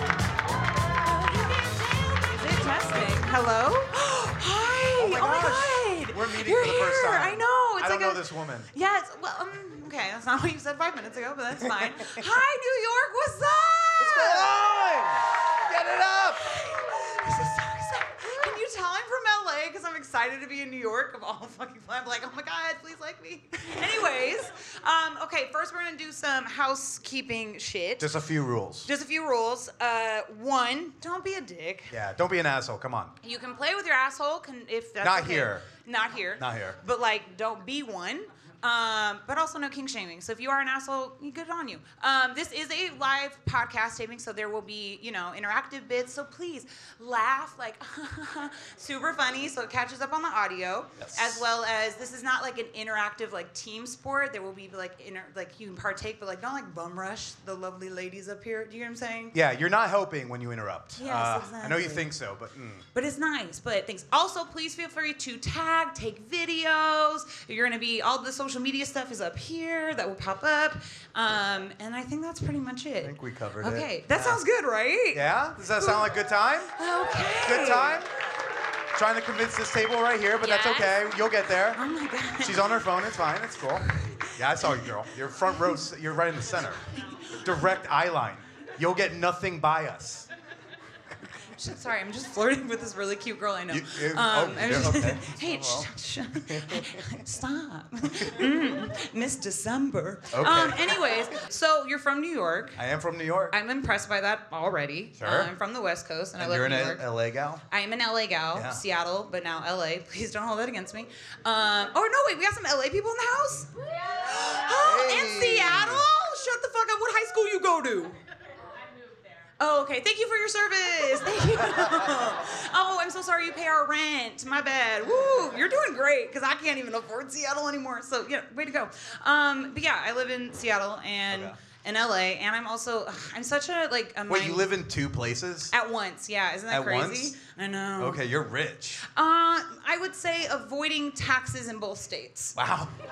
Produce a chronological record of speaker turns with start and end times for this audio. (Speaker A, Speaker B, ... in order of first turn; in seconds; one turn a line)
Speaker A: 2.0-8.2
Speaker B: 5.0-8.7
Speaker A: 8.7-14.7
Speaker B: 12.0-12.2
Speaker B: 14.0-16.4
Speaker A: 16.4-28.1
Speaker B: 28.0-28.9
Speaker A: 28.9-31.9
Speaker B: 31.9-33.1
Speaker A: 33.2-59.4
Speaker B: 35.0-35.6
Speaker B: 36.4-36.8
Speaker B: 51.0-51.4
Speaker B: 59.3-62.8
Speaker A: 61.0-62.1
Speaker A: 63.0-76.1
Speaker B: 73.0-74.4
Speaker B: 75.1-76.7
Speaker A: 76.8-78.0
Speaker B: 77.4-78.1
Speaker B: 79.0-81.8
Speaker A: 80.4-81.1
Speaker A: 81.8-83.0
Speaker B: 82.4-86.8
Speaker A: 84.0-84.8
Speaker B: 87.4-90.3
Speaker A: 91.6-102.8
Speaker B: 93.7-95.9
Speaker B: 96.5-97.0
Speaker B: 100.3-101.0
Speaker B: 102.8-103.5
Speaker A: 103.5-107.0
Speaker B: 105.2-105.5
Speaker B: 106.4-107.6
Speaker A: 107.7-113.7
Speaker B: 108.5-108.8
Speaker A: 114.3-118.2
Speaker B: 114.8-116.1
Speaker A: 119.6-134.8
Speaker B: 131.3-131.6
Speaker B: 134.3-135.7
Speaker A: 135.7-138.2
Speaker B: 136.7-137.3
Speaker B: 138.0-139.0
Speaker A: 139.1-142.6
Speaker B: 142.6-142.9